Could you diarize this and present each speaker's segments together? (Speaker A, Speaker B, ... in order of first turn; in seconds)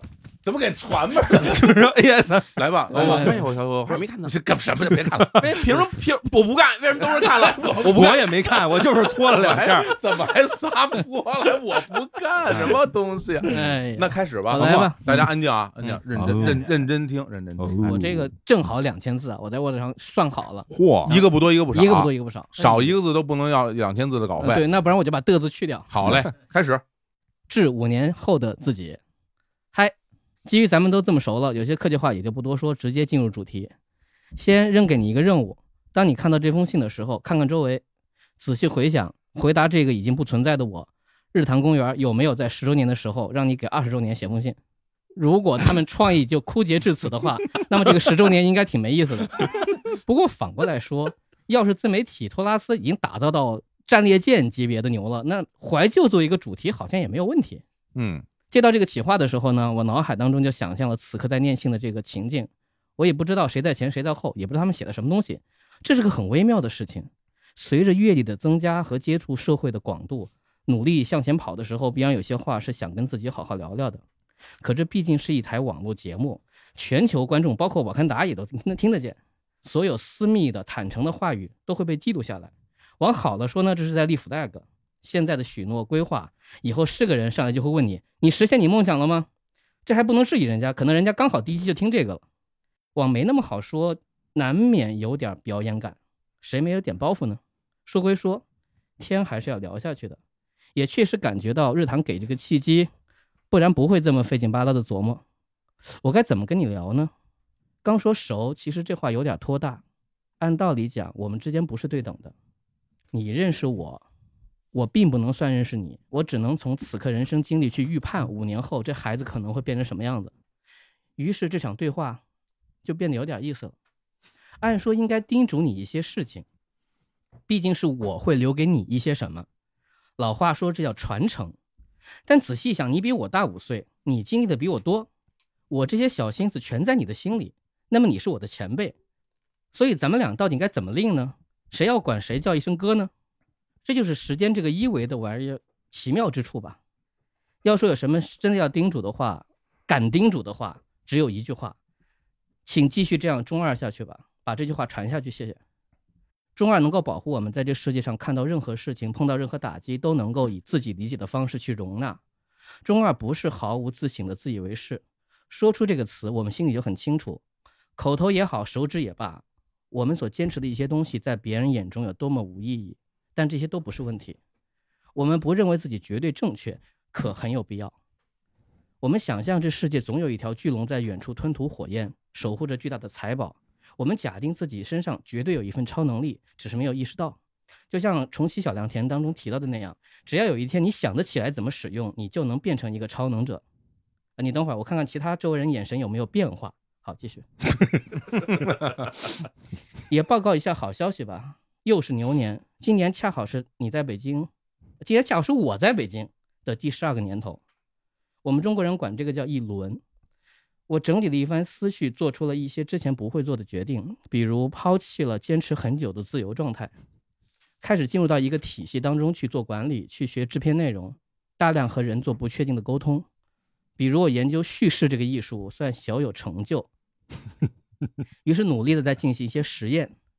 Speaker A: 0.4-1.9, 2.6-5.8, 7.0-8.5, 9.3-18.0, 21.1-24.6, 25.9-26.8, 58.0-58.2
Speaker B: 1.3-2.6, 7.8-9.9, 14.6-15.3, 16.1-16.7, 17.6-18.3, 20.7-21.2
Speaker C: 2.9-4.4, 5.3-8.2, 12.5-12.8
Speaker D: 2.9-3.3, 13.5-15.0, 17.8-22.9, 24.4-25.9, 27.5-29.0, 29.7-33.7, 34.4-37.8, 38.4-44.6, 45.2-57.6, 58.5-74.0, 74.6-89.3, 89.9-92.2, 93.0-98.4, 99.0-100.2, 100.8-102.9, 103.5-105.2, 106.0-107.1, 107.8-109.8, 110.4-112.3, 113.1-114.0, 114.7-120.3, 121.2-122.2, 122.8-123.8, 124.6-126.5, 127.5-129.5, 130.2-131.6, 132.3-135.1, 135.7-138.9, 139.7-143.1, 143.8-146.8, 147.6-151.8, 152.7-155.6, 156.6-162.2, 162.8-167.4, 168.0-174.4, 175.2-177.9, 179.0-187.4, 187.9-193.6, 194.4-197.4, 200.1-204.5, 205.0-207.6, 208.4-210.0, 210.9-216.9, 217.8-223.3, 224.0-226.9, 228.4-230.1